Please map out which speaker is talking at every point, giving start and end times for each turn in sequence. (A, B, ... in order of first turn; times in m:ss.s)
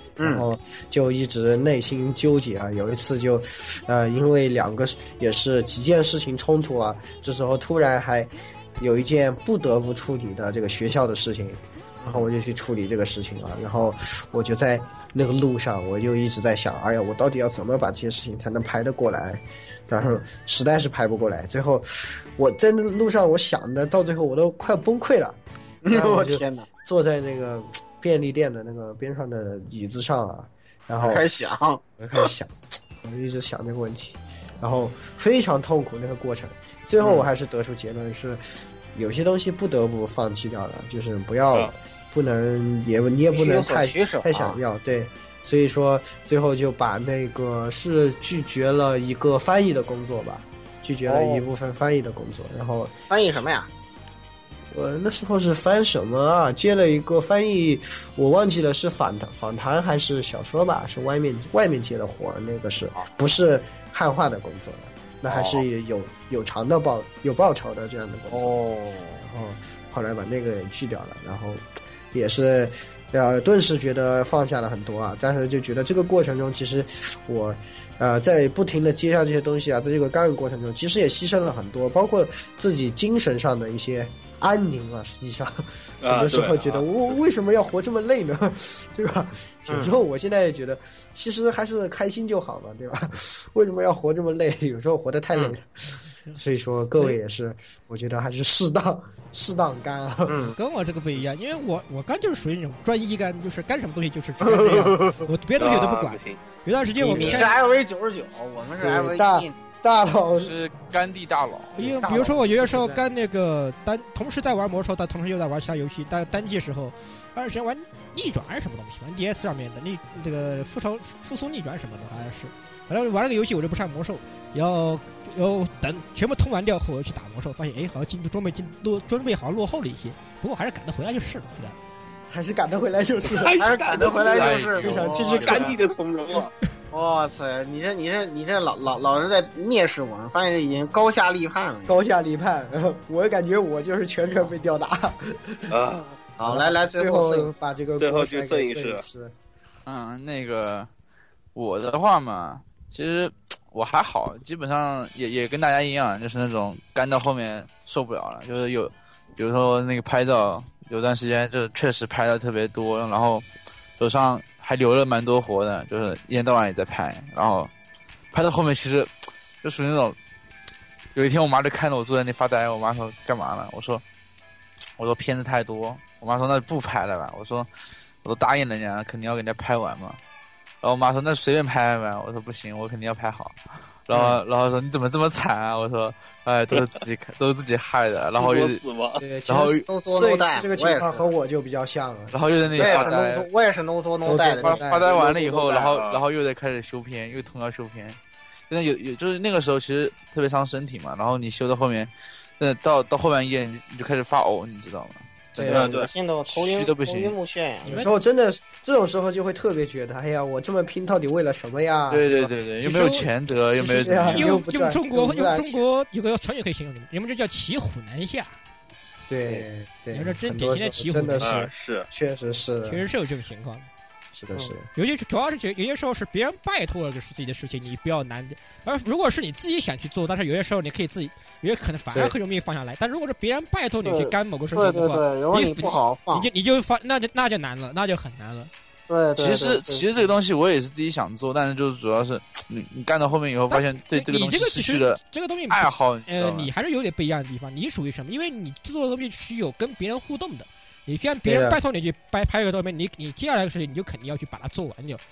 0:00.2-0:00.4 A
0:00.2-0:25.4 B
0:25.8-0:26.7 A
0:25.9-0:31.2 B
0:31.0-0:32.3 A
0:32.0-0:38.4 B
0:37.0-0:37.3 A
0:38.9-0:52.9 B
0:43.3-0:44.6 A
0:51.1-0:51.4 A
0:53.1-0:53.7 A
0:54.7-1:08.6 B
1:05.3-1:05.6 A
1:08.3-1:09.2 A
1:09.2-1:40.5 B
1:26.0-1:26.8 C
1:29.7-1:29.9 A
1:40.3-1:40.6 A
1:40.6-1:47.5 D
1:44.5-1:45.2 A
1:45.6-1:46.4 C
1:47.0-1:47.5 B
1:47.0-1:49.6 A
1:48.8-1:50.5 B
1:50.4-1:51.8 E
1:51.8-2:11.8 D
1:51.8-1:53.1 B
2:12.3-2:13.6 B
2:13.2-2:16.5 C
2:13.6-2:15.7 A
2:14.2-2:15.7 E
2:14.7-2:15.8 B
2:16.9-2:22.0 A
2:21.9-2:25.7 B
2:25.7-2:26.2 C
2:26.4-2:27.5 A
2:26.4-2:29.3 B
2:28.0-2:29.0 C
2:29.8-2:30.9 E
2:31.5-2:43.4 E
2:44.0-2:47.7 E
2:48.3-2:49.1 E
2:49.6-2:50.2 E
2:51.1-2:54.0 E
2:55.0-2:57.7 E
2:58.2-3:00.2 E
3:00.8-3:03.6 E
3:04.1-3:08.8 E
3:06.7-3:07.0 C
3:08.4-3:09.2 C
3:09.2-3:13.1 B
3:09.5-3:09.8 E
3:09.8-3:11.2 A
3:12.3-3:13.5 E
3:12.8-3:15.2 A
3:14.2-3:15.0 B
3:14.3-3:18.2 E
3:15.0-3:16.2 C
3:18.7-3:27.4 E
3:25.6-3:25.9 B
3:25.6-3:28.1 A
3:25.7-3:26.1 C
3:27.8-3:28.1 D
3:27.9-3:32.5 B
3:32.1-3:34.6 E
3:32.8-3:33.3 D
3:33.8-3:35.8 B
3:34.2-3:38.6 D
3:39.3-3:43.0 B
3:40.1-3:41.7 D
3:41.4-3:42.1 C
3:42.8-3:43.9 D
3:44.3-3:44.9 B
3:44.9-3:58.7 D
3:54.0-3:56.5 A
3:59.1-4:00.1 A
3:59.4-4:06.7 E
4:03.7-4:15.2 D
4:11.4-4:11.8 B